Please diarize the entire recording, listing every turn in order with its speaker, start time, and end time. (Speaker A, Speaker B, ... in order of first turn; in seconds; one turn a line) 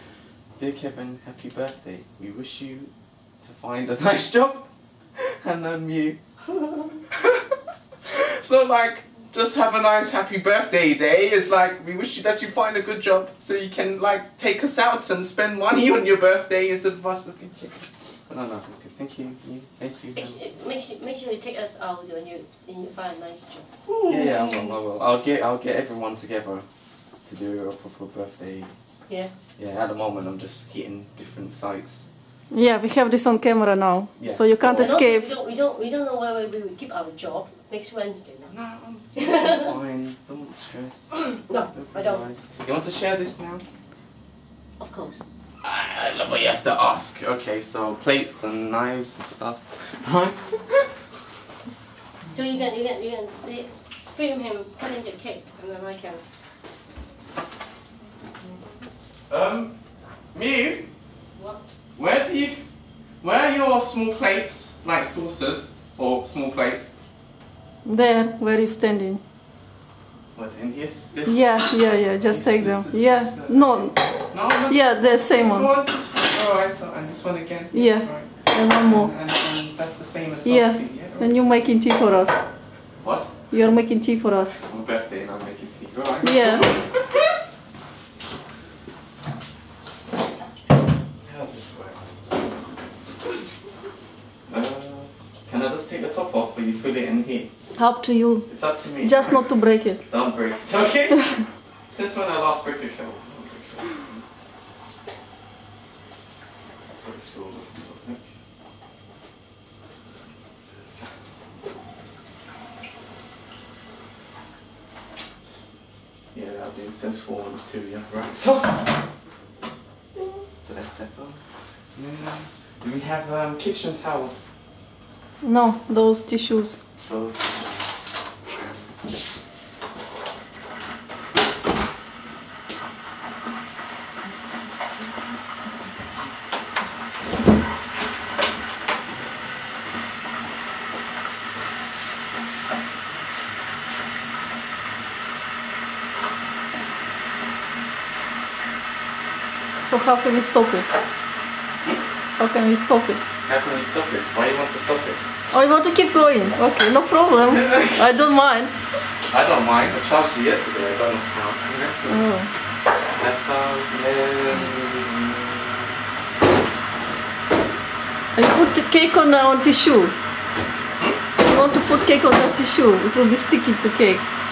Speaker A: 0.6-20.4
Speaker B: 20.1-23.7
Speaker A: 24.0-26.6
Speaker A: 27.3-28.7
Speaker A: 29.6-32.1
Speaker C: 32.5-35.3
Speaker A: 34.2-35.0
Speaker B: 34.8-38.5
Speaker A: 38.5-41.2
Speaker B: 39.2-39.6
Speaker B: 41.3-42.3
Speaker A: 41.7-43.6
Speaker B: 44.8-45.2
Speaker A: 45.6-50.9
Speaker B: 52.3-56.2
Speaker A: 59.3-59.8
Speaker A: 60.3-60.9
Speaker A: 62.0-62.6
Speaker A: 63.2-66.9
Speaker C: 67.8-69.2
Speaker A: 70.3-81.3
Speaker C: 71.3-74.0
Speaker C: 74.7-75.7
Speaker C: 77.7-79.1
Speaker C: 80.5-82.4
Speaker A: 83.0-83.3
Speaker C: 83.5-84.6
Speaker A: 84.6-86.8
Speaker C: 86.2-86.7
Speaker A: 91.2-92.0
Speaker A: 94.5-97.5
Speaker C: 97.8-98.5
Speaker A: 98.5-99.5
Speaker C: 99.0-100.0
Speaker A: 100.0-101.2
Speaker A: 101.9-104.2
Speaker A: 106.9-108.2
Speaker A: 116.3-118.9
Speaker A: 120.6-121.4
Speaker A: 122.0-124.4
Speaker C: 125.4-126.8
Speaker A: 127.0-128.8
Speaker C: 149.8-150.9
Speaker C: 152.4-153.2
Speaker A: 153.5-155.3
Speaker C: 155.5-158.7
Speaker A: 157.4-158.1
Speaker A: 159.3-162.2
Speaker C: 162.1-162.5
Speaker A: 163.2-165.8
Speaker C: 168.3-170.1
Speaker C: 171.4-174.2